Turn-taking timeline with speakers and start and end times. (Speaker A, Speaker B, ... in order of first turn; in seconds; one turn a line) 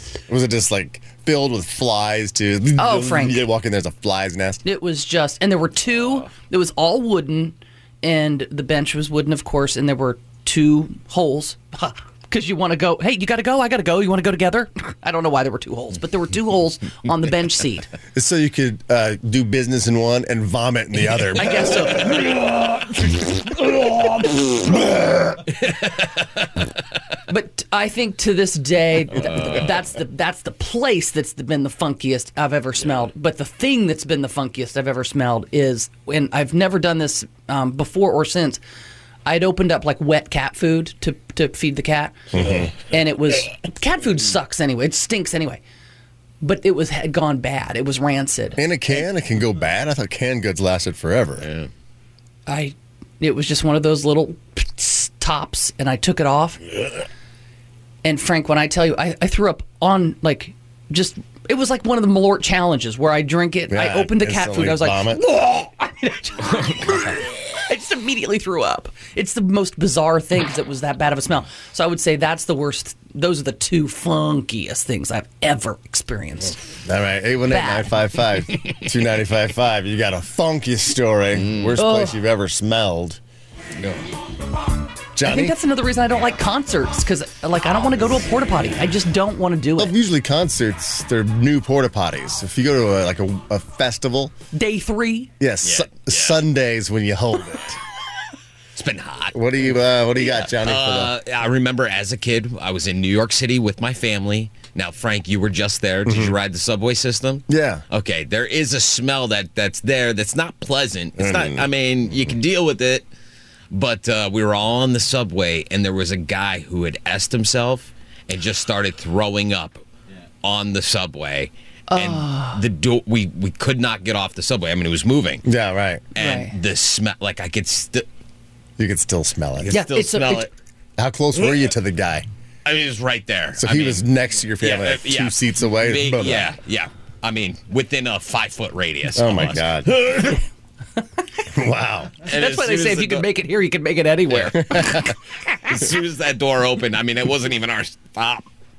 Speaker A: 0.3-4.6
Speaker B: 2.8-3.4
Speaker B: 4.6-17.9
Speaker A: 18.1-22.2
Speaker B: 21.4-22.2
Speaker B: 27.3-38.6
Speaker B: 39.2-42.3
Speaker A: 42.3-42.7
Speaker B: 42.9-45.6
Speaker B: 46.4-49.0
Speaker A: 48.6-51.5
Speaker C: 51.4-51.7
Speaker B: 52.5-56.6
Speaker B: 58.0-76.6
Speaker A: 63.7-65.2
Speaker A: 76.8-83.2
Speaker B: 77.5-78.0
Speaker C: 81.4-81.7
Speaker B: 81.8-82.2
Speaker C: 83.8-84.0
Speaker A: 85.2-85.5
Speaker B: 85.2-89.9
Speaker A: 89.8-94.3
Speaker B: 94.5-95.3
Speaker A: 95.4-97.8
Speaker C: 95.6-96.4
Speaker C: 98.8-99.4
Speaker A: 99.3-101.1
Speaker C: 100.2-113.0
Speaker A: 106.0-106.3
Speaker A: 107.5-107.8
Speaker A: 111.2-111.7
Speaker C: 113.7-119.8
Speaker C: 120.4-125.4
Speaker B: 121.9-122.6
Speaker A: 125.4-126.0
Speaker C: 126.1-128.1
Speaker B: 126.2-126.5
Speaker A: 128.8-130.3
Speaker C: 129.6-130.5
Speaker B: 129.7-130.5
Speaker A: 131.0-132.2
Speaker C: 131.3-131.6
Speaker C: 132.6-134.0
Speaker A: 133.6-136.5
Speaker C: 134.6-140.3
Speaker A: 139.1-139.9
Speaker A: 141.5-142.3
Speaker C: 142.3-143.2
Speaker B: 142.3-145.0
Speaker A: 144.5-145.1
Speaker C: 145.7-148.5